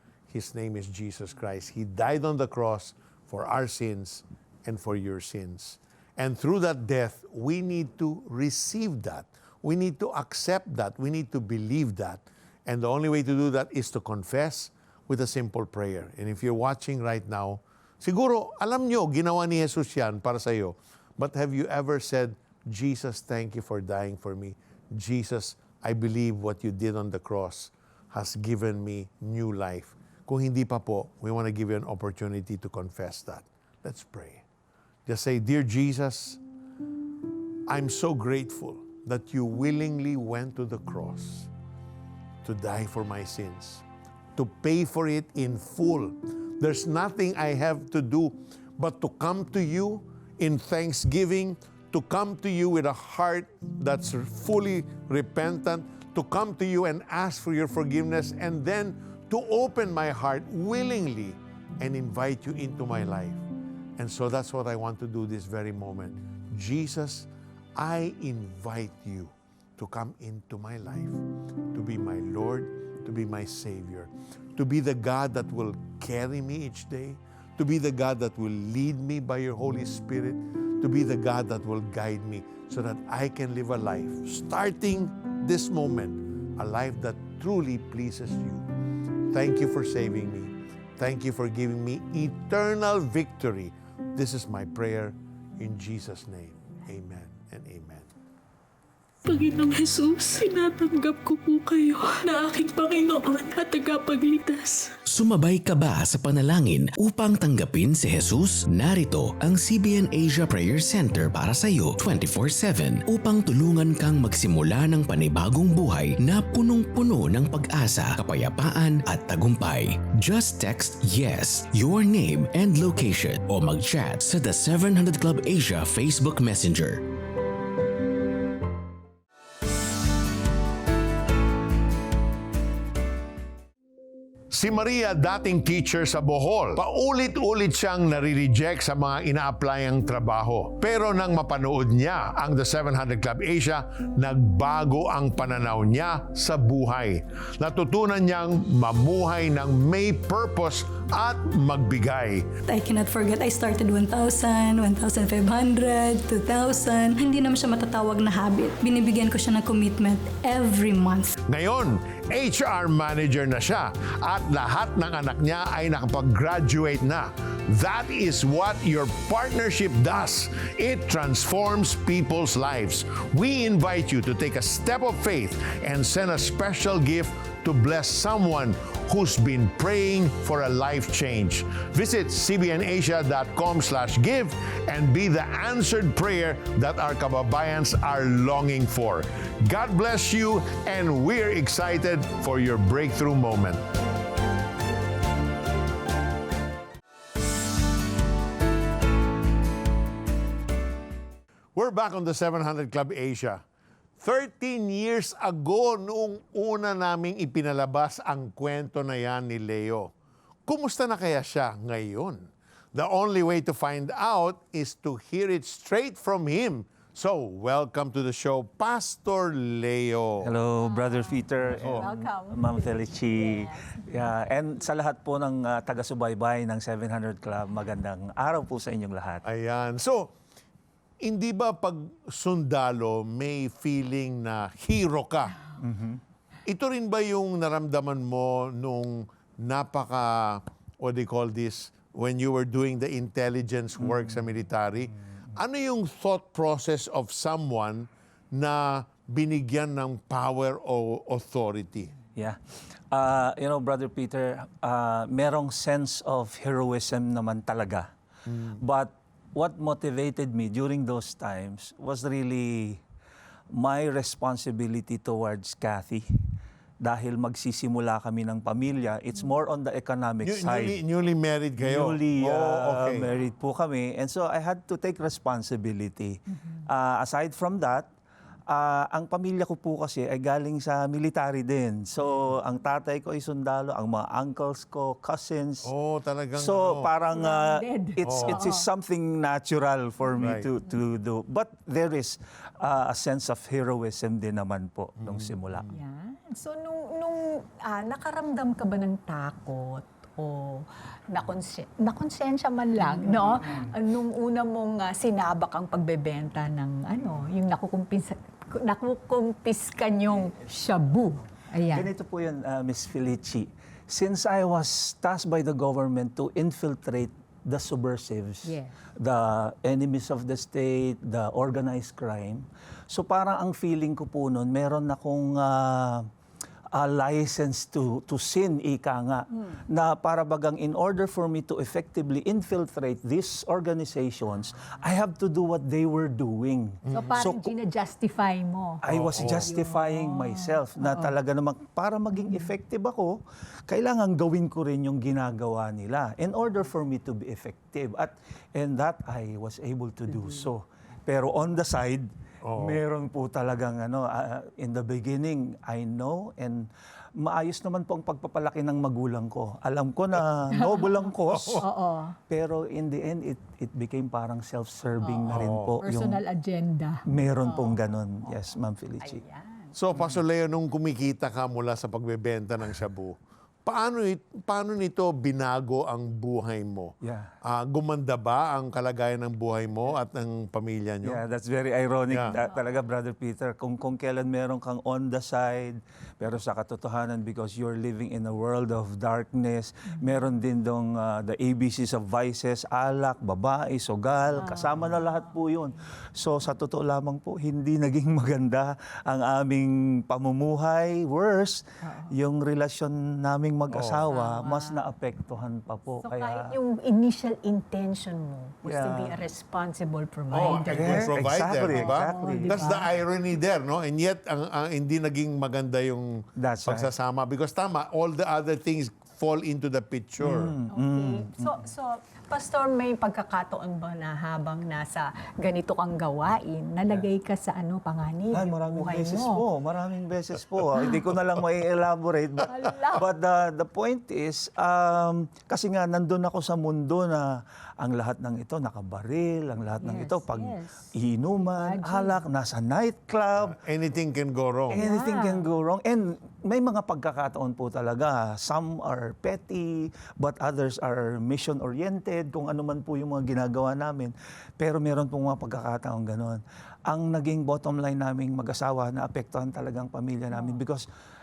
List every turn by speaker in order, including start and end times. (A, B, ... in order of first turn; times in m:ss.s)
0:00.3-0:34.4 A
0:35.0-0:36.4 A
0:37.7-0:41.5 A
0:42.4-0:43.8 A
0:44.4-1:03.4 A
1:04.0-1:28.6 A
1:29.3-1:38.1 A
1:39.2-1:44.9 B
1:45.1-2:07.1 C
2:14.5-2:32.5 A
2:32.7-2:41.3 D
2:41.5-3:13.8 A
3:21.7-3:23.6 A
3:24.2-3:30.1 A
3:30.7-3:40.5 A
3:40.4-3:49.4 E
3:40.8-3:44.0 F
3:41.8-3:42.1 A
3:49.4-3:50.3 A
3:51.2-3:55.6 A
3:55.8-3:56.2 E
3:56.6-4:12.1 A
4:04.0-4:04.4 E
4:12.3-4:18.1 E
4:18.4-4:18.8 A
4:18.8-4:23.0 E
4:23.7-4:26.3 E
4:27.0-4:31.0 E
4:30.4-4:33.3 A
4:31.8-4:38.1 E
4:38.7-4:45.9 E
4:45.8-4:47.1 A
4:46.5-4:55.9 E
4:47.3-4:48.8 F
4:48.2-4:48.6 A
4:50.4-4:50.7 A
4:55.2-4:56.0 A
4:55.9-5:12.1 F
5:03.0-5:03.9 E
5:11.9-5:26.3 E
5:18.6-5:18.9 F
5:26.9-5:37.7 E
5:37.0-5:37.4 A
5:37.1-5:41.3 F
5:39.0-5:43.4 E
5:39.1-5:39.7 A
5:43.9-6:01.8 E
5:50.4-5:50.6 F
5:52.6-5:53.0 A
6:01.5-6:01.8 A
6:01.8-6:02.4 F
6:02.5-6:06.4 E
6:05.2-6:09.9 F
6:05.5-6:05.9 A
6:07.3-6:09.4 E
6:09.9-6:21.4 A
6:17.2-6:17.5 E
6:21.2-6:46.8 E
6:34.6-6:35.5 F
6:42.0-6:42.3 F
6:43.9-6:44.3 A
6:44.3-6:45.0 F
6:46.2-6:51.3 F
6:48.8-6:49.4 E
6:50.5-7:00.8 A
6:50.9-6:53.0 E
6:51.9-6:53.2 F
6:56.6-6:57.1 E
7:00.4-7:01.7 E
7:00.9-7:09.6 F
7:08.5-7:23.8 E
7:12.6-7:13.2 F
7:20.0-7:22.4 F
7:23.6-7:25.0 A
7:24.9-7:41.1 E
7:24.9-7:25.6 F
7:40.5-7:40.8 F